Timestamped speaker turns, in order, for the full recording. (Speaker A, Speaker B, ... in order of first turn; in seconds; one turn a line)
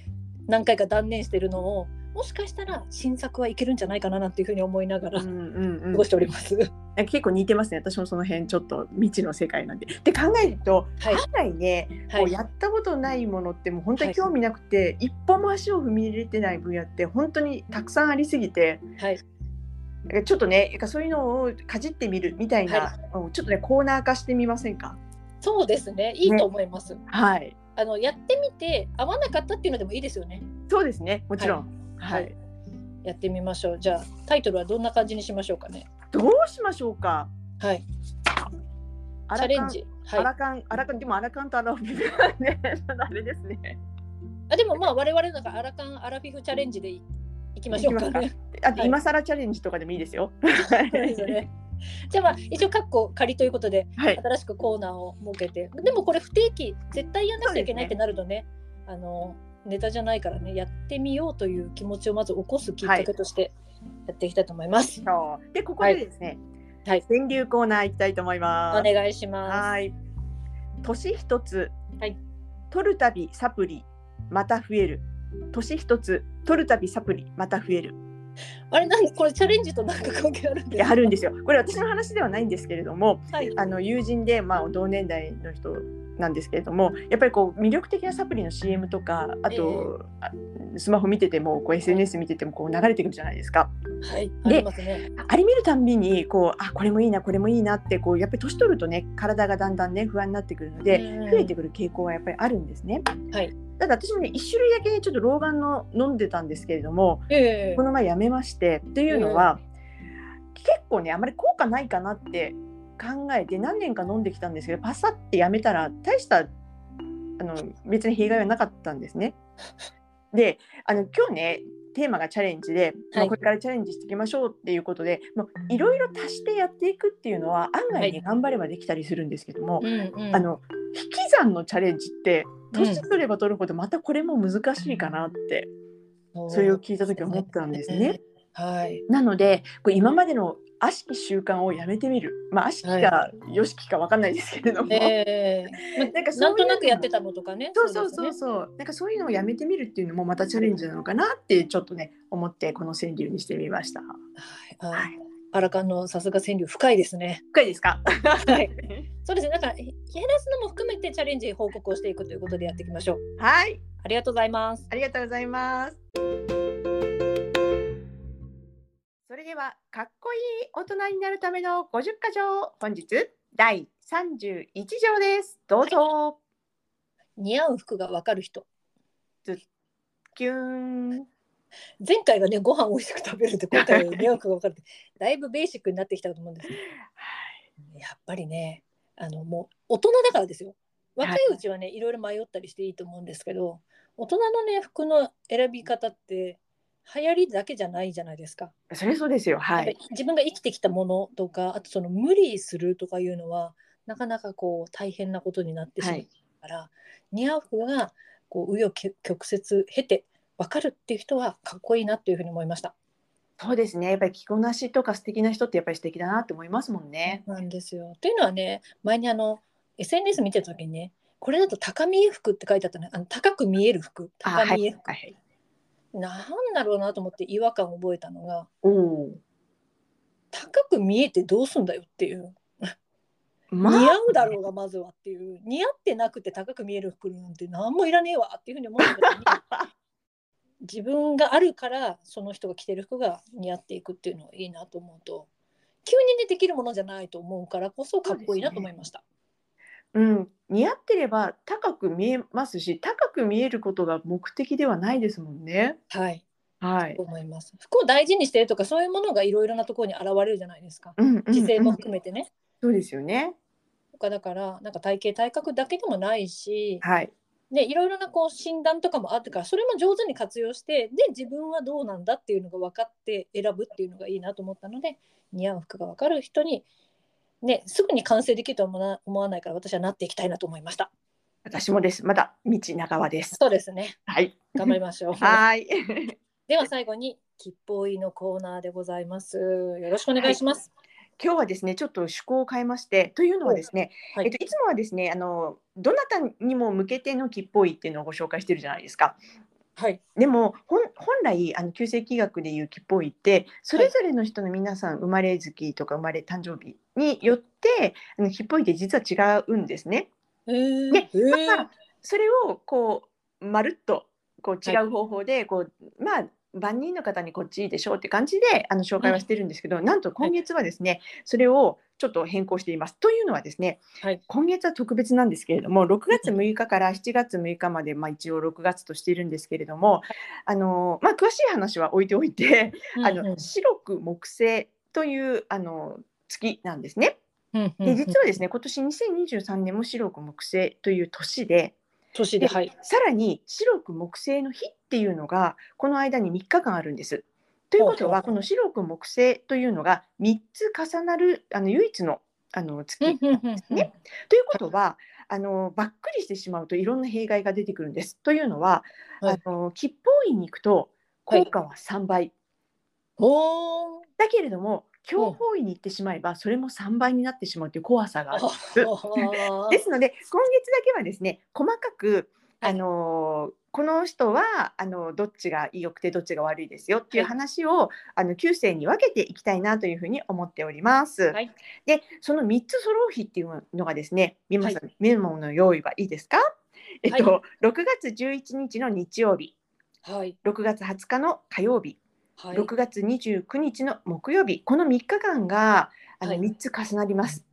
Speaker A: 0.5-5.3
Speaker B: 5.1-6.1
Speaker A: 5.9-6.7
Speaker B: 7.0-18.8
Speaker A: 11.0-11.2
Speaker A: 14.0-14.3
Speaker B: 20.1-25.0
Speaker A: 22.7-22.9
Speaker A: 25.4-27.0
Speaker B: 27.1-27.6
Speaker A: 27.8-30.5
Speaker B: 30.7-32.3
Speaker A: 31.4-32.3
Speaker A: 33.0-35.9
Speaker B: 36.1-37.3
Speaker A: 37.6-37.8
Speaker B: 39.3-43.8
Speaker A: 39.4-40.3
Speaker A: 44.5-47.0
Speaker A: 47.5-49.0
Speaker B: 47.7-51.4
Speaker A: 50.6-51.5
Speaker A: 52.1-63.5
Speaker B: 57.4-57.9
Speaker B: 62.8-63.1
Speaker A: 64.1-65.0
Speaker B: 65.0-66.4
Speaker B: 67.1-68.9
Speaker A: 68.7-69.7
Speaker B: 69.5-69.9
Speaker B: 70.8-71.7
Speaker B: 72.7-78.0
Speaker A: 78.7-81.1
Speaker B: 80.8-93.7
Speaker A: 89.5-89.9
Speaker A: 94.0-95.1
Speaker B: 94.4-103.1
Speaker A: 100.9-101.5
Speaker B: 103.8-109.6
Speaker A: 107.3-107.8
Speaker A: 109.1-109.5
Speaker B: 110.5-116.5
Speaker B: 117.4-119.3
Speaker B: 120.3-135.7
Speaker A: 127.9-128.2
Speaker A: 129.8-130.4
Speaker A: 132.7-133.0
Speaker A: 136.3-139.0
Speaker B: 136.5-138.2
Speaker B: 139.1-145.1
Speaker A: 142.8-143.1
Speaker A: 144.9-148.4
Speaker B: 145.7-147.1
Speaker B: 147.7-154.1
Speaker A: 154.4-157.4
Speaker B: 157.5-159.0
Speaker A: 158.4-158.7
Speaker A: 159.2-163.2
Speaker B: 163.4-163.8
Speaker A: 164.0-164.9
Speaker B: 164.9-166.0
Speaker B: 169.3-176.4
Speaker A: 177.4-178.7
Speaker B: 180.3-181.3
Speaker A: 182.0-186.8
Speaker B: 183.7-184.3
Speaker B: 187.2-187.6
Speaker A: 187.9-198.7
Speaker B: 191.2-191.5
Speaker B: 198.9-199.9
Speaker A: 199.8-212.9
Speaker B: 206.0-206.2
Speaker B: 213.6-217.4
Speaker A: 217.3-225.1
Speaker B: 224.4-225.3
Speaker A: 226.1-228.7
Speaker B: 228.8-229.4
Speaker A: 230.5-232.9
Speaker B: 233.7-234.5
Speaker A: 233.8-239.6
Speaker B: 239.0-239.9
Speaker A: 240.8-245.5
Speaker A: 246.0-249.2
Speaker B: 248.2-248.9
Speaker B: 250.1-256.0
Speaker A: 256.1-256.4
Speaker B: 256.8-257.2
Speaker A: 257.1-262.5
Speaker B: 261.2-262.0
Speaker B: 262.8-263.6
Speaker A: 264.1-267.0
Speaker B: 267.0-267.3
Speaker A: 267.7-276.9
Speaker A: 277.6-281.1
Speaker B: 281.6-283.6
Speaker A: 283.5-284.2
Speaker B: 284.3-286.3
Speaker A: 284.7-285.6
Speaker A: 286.7-290.9
Speaker B: 291.4-299.4
Speaker A: 293.6-294.5
Speaker B: 300.4-310.3
Speaker A: 310.7-311.9
Speaker B: 311.1-337.4
Speaker A: 333.1-333.7
Speaker A: 337.7-338.4
Speaker B: 338.0-341.9
Speaker A: 342.3-342.9
Speaker B: 342.6-362.5
Speaker A: 348.0-348.5
Speaker A: 353.2-354.1
Speaker A: 363.4-364.2
Speaker B: 364.4-386.6
Speaker A: 368.5-370.0
Speaker B: 387.2-389.7
Speaker A: 387.3-387.5
Speaker A: 390.2-390.6
Speaker B: 390.6-392.2
Speaker A: 392.6-392.9
Speaker B: 392.7-397.6